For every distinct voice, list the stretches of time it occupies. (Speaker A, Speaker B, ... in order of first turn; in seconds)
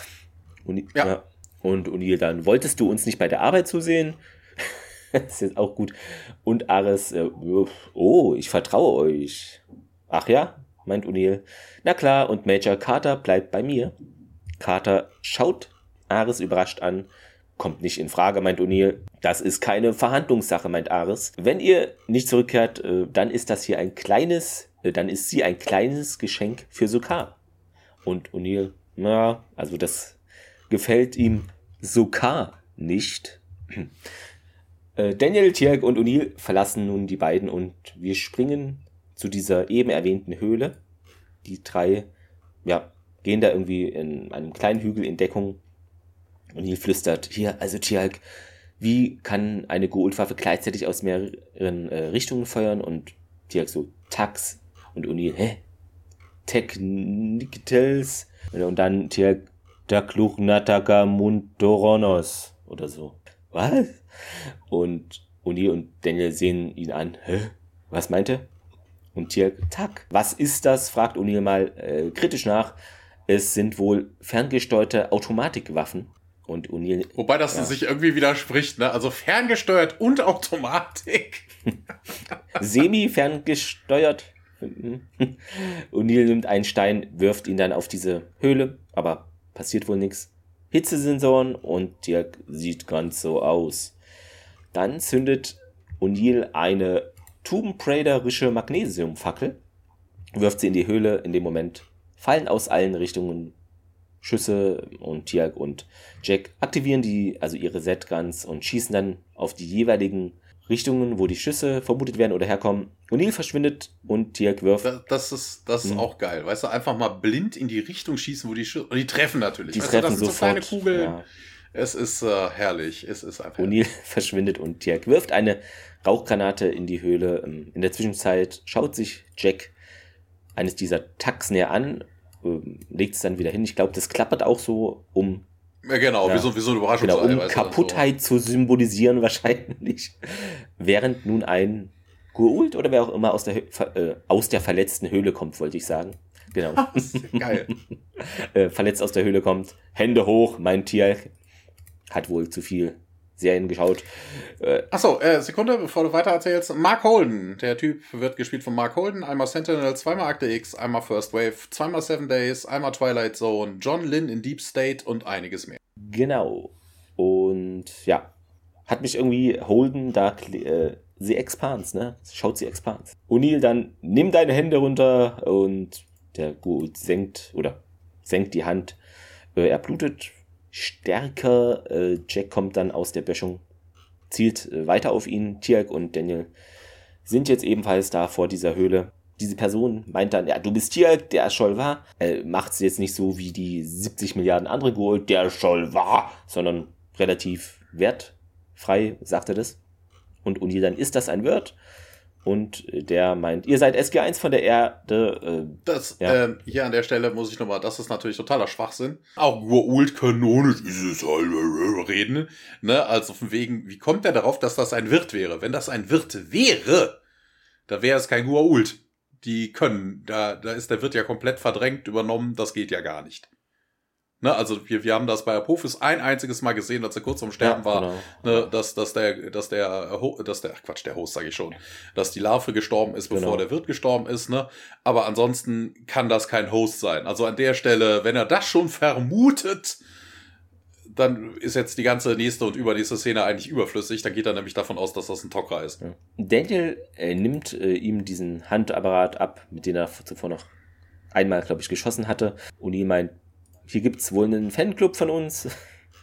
Speaker A: 0.7-13.9, 14.6-27.4, 28.1-30.2, 30.7-33.9, 35.0-40.8, 41.4-42.1, 42.6-45.6, 46.6-48.2, 48.8-55.6, 56.5-68.5, 69.2-72.8, 73.3-77.7, 82.6-94.0, 94.7-99.6, 100.3-103.5, 104.2-114.9, 119.7-121.2, 123.6-129.7, 130.6-135.4, 136.2-136.5, 137.0-151.3, 152.1-154.9, 166.0-168.3, 168.9-179.0, 179.6-183.6, 184.3-186.5, 187.3-199.8, 200.4-201.8, 202.4-206.4, 227.6-228.7, 233.3-233.6, 246.0-250.7, 251.3-253.3, 253.9-255.7
Speaker B: 77.2-81.5, 114.8-121.2, 121.7-123.8, 135.8-138.0, 146.8-147.7, 154.9-165.8, 205.9-217.2, 217.9-223.5, 224.4-240.0, 241.1-246.0